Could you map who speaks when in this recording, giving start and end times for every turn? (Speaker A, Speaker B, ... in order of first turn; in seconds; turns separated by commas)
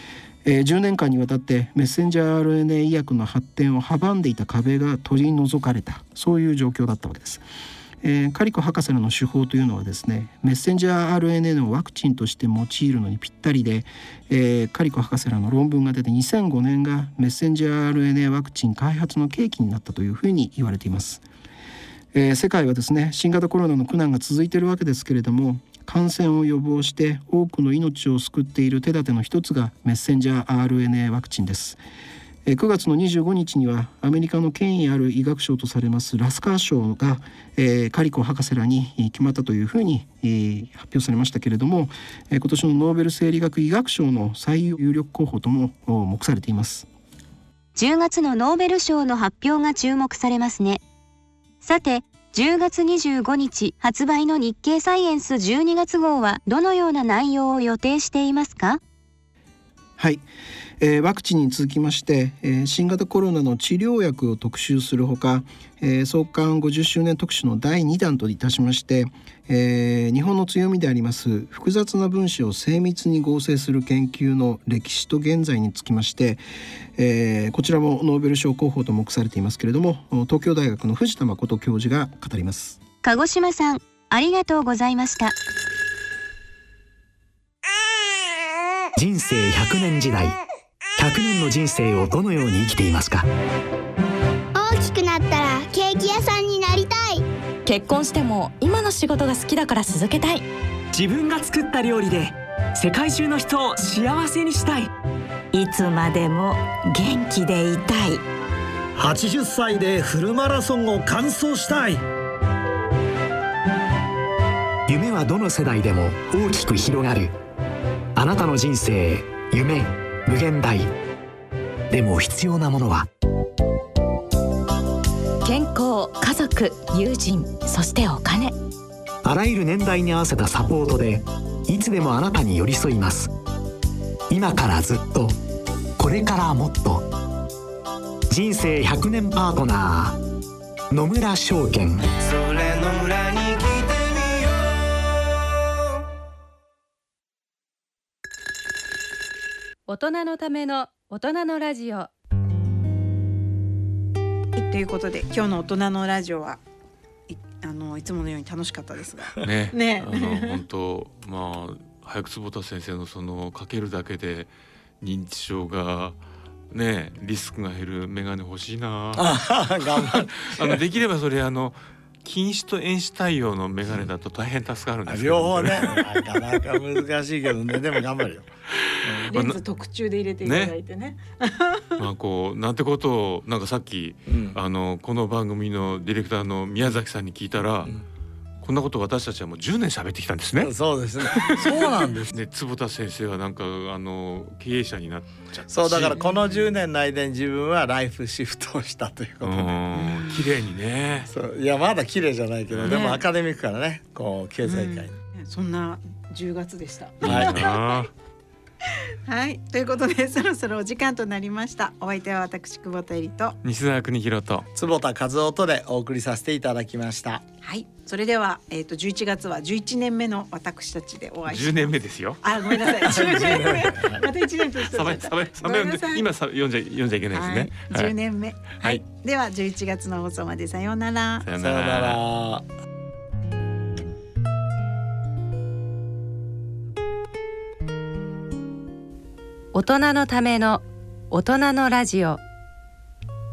Speaker A: 0.5-7.4, Speaker A: 8.0-21.2, Speaker A: 22.1-31.8, Speaker A: 32.5-46.9, Speaker B: 47.8-50.8, Speaker B: 51.6-58.8, Speaker A: 60.0-60.2, Speaker A: 60.8-76.4, Speaker A: 77.0-82.8, Speaker B: 83.0-85.3, Speaker C: 89.0-90.4, Speaker C: 91.0-93.3, Speaker D: 94.5-97.2, Speaker E: 97.7-100.5, Speaker F: 100.9-104.9, Speaker G: 105.5-108.2, Speaker H: 109.0-112.0, Speaker C: 114.9-117.3, Speaker C: 118.2-120.9, Speaker C: 121.9-123.1, Speaker E: 125.5-128.6, Speaker C: 129.2-133.3, Speaker C: 134.3-135.4, Speaker C: 136.0-137.1, Speaker C: 138.3-140.2, Speaker C: 140.9-142.5, Speaker A: 142.7-143.7, Speaker I: 149.9-152.1, Speaker J: 154.6-156.6, Speaker J: 157.3-160.6, Speaker K: 159.4-166.2, Speaker K: 166.7-169.3, Speaker L: 169.2-170.8, Speaker K: 169.9-176.4, Speaker L: 175.1-178.5, Speaker K: 179.2-179.6, Speaker J: 179.3-181.8, Speaker K: 180.4-180.7, Speaker K: 182.0-187.9, Speaker L: 184.3-184.6, Speaker K: 188.6-196.2, Speaker L: 190.6-192.3, Speaker L: 195.7-199.8, Speaker K: 199.4-201.3, Speaker J: 199.9-200.4, Speaker L: 201.3-205.1, Speaker K: 202.7-203.0, Speaker J: 202.9-203.2, Speaker J: 204.6-208.0, Speaker K: 207.2-208.1, Speaker L: 207.2-207.6, Speaker J: 209.3-213.6, Speaker K: 213.6-214.7, Speaker L: 214.8-217.4, Speaker J: 217.6-221.9, Speaker K: 221.5-222.4, Speaker J: 222.4-226.3, Speaker L: 223.1-224.2, Speaker K: 224.9-228.1, Speaker J: 227.3-231.5, Speaker K: 231.4-232.2, Speaker L: 231.6-232.7, Speaker I: 239.7-242.4